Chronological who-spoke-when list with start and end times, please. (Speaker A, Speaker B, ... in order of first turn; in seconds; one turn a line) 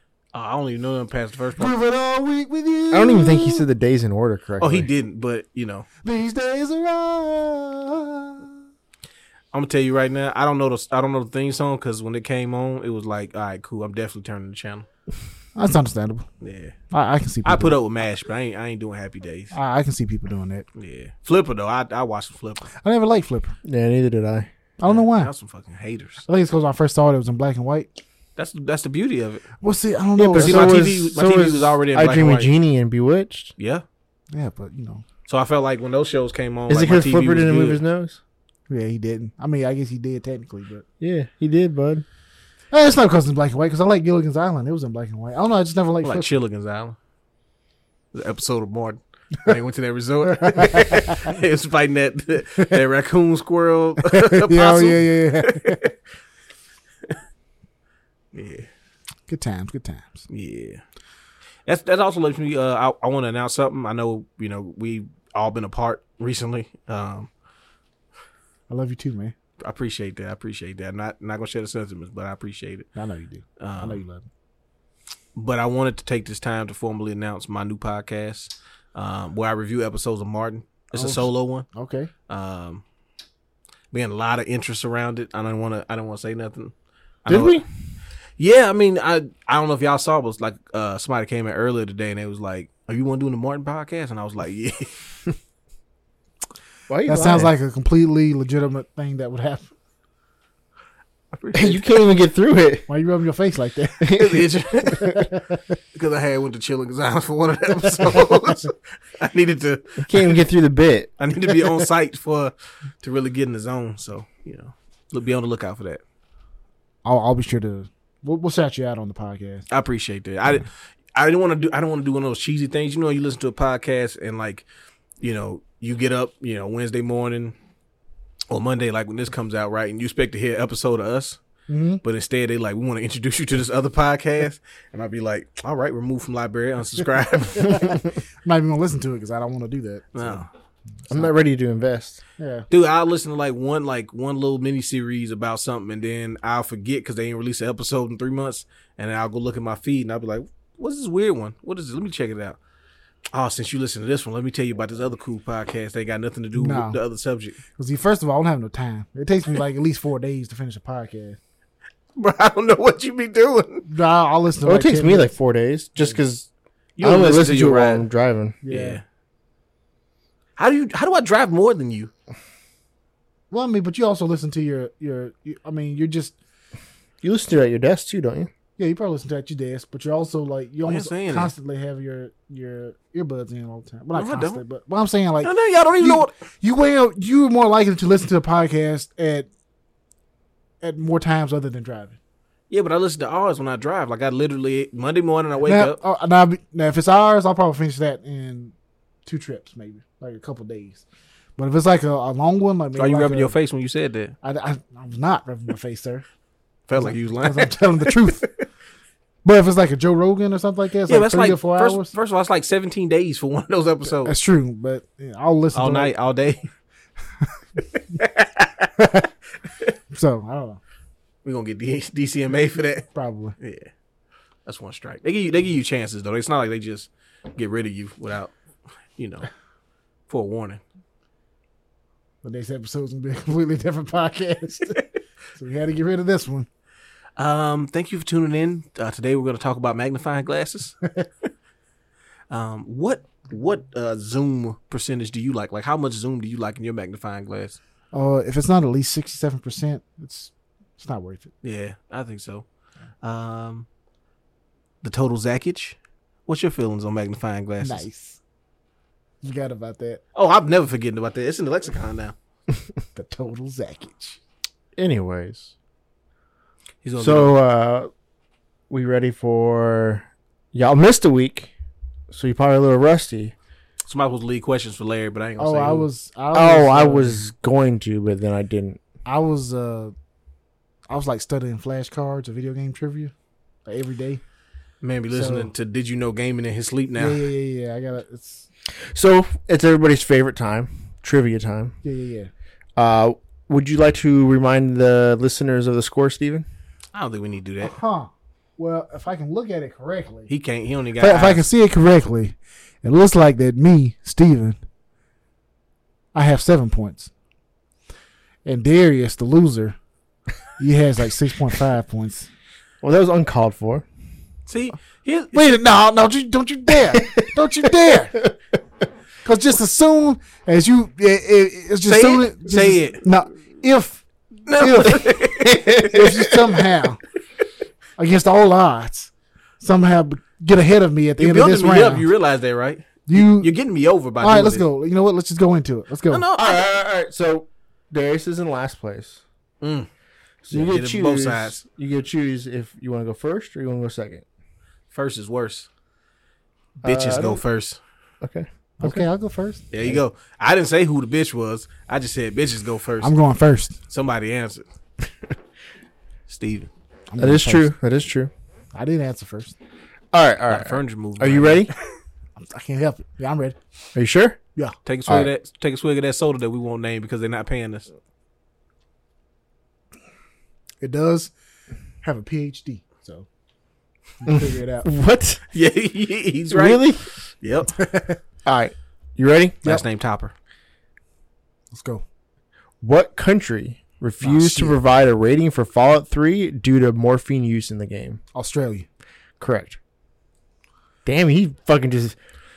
Speaker A: 0.3-1.7
Speaker B: 1.6-3.6
Speaker C: 2.9-4.9
Speaker A: 4.6-5.8
Speaker B: 6.0-8.5
Speaker A: 9.5-14.8
Speaker B: 15.6-16.2
Speaker A: 16.4-16.8
Speaker B: 16.9-17.8
Speaker A: 17.4-19.5
Speaker B: 19.5-20.6
Speaker A: 20.8-22.6
Speaker B: 22.7-23.5
Speaker C: 23.6-24.5
Speaker B: 24.8-25.3
Speaker A: 24.9-26.2
Speaker B: 26.2-27.9
Speaker A: 28.4-29.4
Speaker B: 29.6-30.9
Speaker C: 30.1-33.5
Speaker A: 30.4-32.5
Speaker A: 33.6-33.8
Speaker B: 34.3-35.0
Speaker A: 35.3-37.8
Speaker C: 36.7-38.2
Speaker B: 38.7-40.8
Speaker C: 41.0-42.0
Speaker B: 42.7-46.3
Speaker A: 46.0-47.0
Speaker A: 48.1-55.9
Speaker B: 50.3-51.2
Speaker B: 54.0-55.8
Speaker A: 58.3-58.7
Speaker B: 59.3-60.2
Speaker A: 60.3-60.8
Speaker A: 61.6-67.3
Speaker B: 68.7-69.3
Speaker A: 69.6-72.9
Speaker B: 73.0-74.2
Speaker A: 73.6-74.0
Speaker A: 75.3-81.7
Speaker B: 80.9-82.1
Speaker A: 82.3-82.8
Speaker A: 83.9-86.7
Speaker A: 87.2-87.6
Speaker C: 87.3-87.6
Speaker A: 88.4-95.0
Speaker C: 96.9-97.5
Speaker B: 97.1-99.7
Speaker A: 101.3-101.8
Speaker C: 101.5-102.9
Speaker B: 102.9-105.7
Speaker C: 104.0-105.2
Speaker A: 104.1-105.2
Speaker A: 105.9-110.4
Speaker B: 107.7-108.7
Speaker C: 110.0-111.1
Speaker A: 111.2-116.0
Speaker B: 117.0-119.7
Speaker A: 119.7-124.6
Speaker A: 125.2-127.5
Speaker A: 128.5-131.4
Speaker B: 131.7-132.0
Speaker A: 132.0-138.0
Speaker B: 137.6-140.4
Speaker A: 140.1-140.5
Speaker C: 141.1-142.2
Speaker B: 142.4-142.6
Speaker A: 142.7-152.6
Speaker A: 153.3-157.6
Speaker B: 156.6-157.0
Speaker B: 157.8-161.4
Speaker A: 162.2-163.8
Speaker B: 163.8-165.3
Speaker C: 164.6-166.5
Speaker A: 167.0-168.0
Speaker C: 167.0-168.6
Speaker B: 168.6-169.0
Speaker A: 168.7-169.0
Speaker A: 170.6-172.1
Speaker B: 173.5-176.3
Speaker C: 177.2-178.5
Speaker B: 178.8-189.5
Speaker A: 180.8-181.5
Speaker A: 184.1-184.6
Speaker A: 185.4-186.3
Speaker B: 190.8-192.2
Speaker A: 192.7-196.0
Speaker B: 195.6-198.7
Speaker B: 199.2-201.0
Speaker B: 201.6-203.6
Speaker A: 202.9-204.3
Speaker B: 204.4-206.2
Speaker A: 206.9-208.5
Speaker B: 206.9-208.5
Speaker B: 209.4-212.1
Speaker A: 211.1-214.3
Speaker B: 214.2-216.1
Speaker A: 215.7-216.7
Speaker A: 218.1-218.9
Speaker B: 219.0-219.3
Speaker B: 220.1-220.8
Speaker A: 221.4-223.9
Speaker B: 223.1-223.6
Speaker A: 224.7-228.5
Speaker A: 229.2-229.5
Speaker A: 230.3-230.8
Speaker B: 232.4-235.0
Speaker B: 235.6-236.7
Speaker A: 237.4-241.0
Speaker A: 242.5-247.8
Speaker B: 248.1-251.5
Speaker A: 251.6-252.6
Speaker A: 253.2-253.8
Speaker A: 255.0-255.9
Speaker A: 256.5-258.0
Speaker B: 257.8-258.4
Speaker B: 259.4-260.2
Speaker A: 260.3-262.3
Speaker B: 263.1-264.4
Speaker C: 265.0-265.7
Speaker A: 267.0-267.5
Speaker C: 267.2-268.1
Speaker C: 268.9-271.7
Speaker C: 272.3-273.5
Speaker A: 274.1-276.1
Speaker B: 275.6-277.4
Speaker C: 276.5-279.0
Speaker B: 279.2-280.1
Speaker B: 281.1-283.3
Speaker B: 283.9-284.4
Speaker A: 285.0-287.4
Speaker B: 285.3-285.7
Speaker B: 287.1-288.7
Speaker C: 288.9-292.0
Speaker B: 292.0-292.5
Speaker C: 292.9-296.7
Speaker A: 297.1-297.9
Speaker B: 297.8-300.5
Speaker A: 300.5-301.6
Speaker B: 301.2-304.8
Speaker B: 306.3-307.3
Speaker B: 308.6-309.9
Speaker B: 310.8-312.5
Speaker C: 313.0-314.0
Speaker A: 314.7-315.7
Speaker B: 315.5-318.3
Speaker C: 317.1-317.4
Speaker C: 317.9-318.5
Speaker B: 319.4-325.4
Speaker A: 322.0-323.2
Speaker A: 324.7-326.1
Speaker C: 325.7-326.2
Speaker B: 326.0-327.2
Speaker B: 328.2-332.3
Speaker A: 331.4-334.9
Speaker B: 333.3-333.7
Speaker B: 334.4-336.4
Speaker A: 336.3-336.8
Speaker C: 336.5-339.4
Speaker A: 339.8-340.1
Speaker C: 340.6-344.4
Speaker A: 340.7-341.8
Speaker A: 345.1-345.9
Speaker C: 347.0-347.6
Speaker A: 347.0-348.0
Speaker C: 348.4-349.2
Speaker B: 349.0-349.9
Speaker A: 349.9-353.3
Speaker B: 353.2-354.0
Speaker A: 354.1-354.8
Speaker A: 356.5-356.9
Speaker B: 357.3-357.9
Speaker C: 357.4-358.5
Speaker B: 358.9-359.8
Speaker C: 360.3-361.9
Speaker A: 360.7-361.9
Speaker B: 362.6-363.8
Speaker C: 364.1-364.6
Speaker A: 365.1-368.1
Speaker B: 371.0-371.5
Speaker B: 372.2-373.4
Speaker B: 374.4-375.1
Speaker C: 374.4-375.6
Speaker A: 375.7-377.9
Speaker C: 376.7-377.2
Speaker B: 377.9-378.4
Speaker C: 378.6-379.8
Speaker A: 379.8-380.5
Speaker B: 381.9-382.2
Speaker C: 383.0-388.4
Speaker B: 384.4-384.9
Speaker B: 388.5-389.1
Speaker C: 389.6-390.0
Speaker C: 391.2-392.4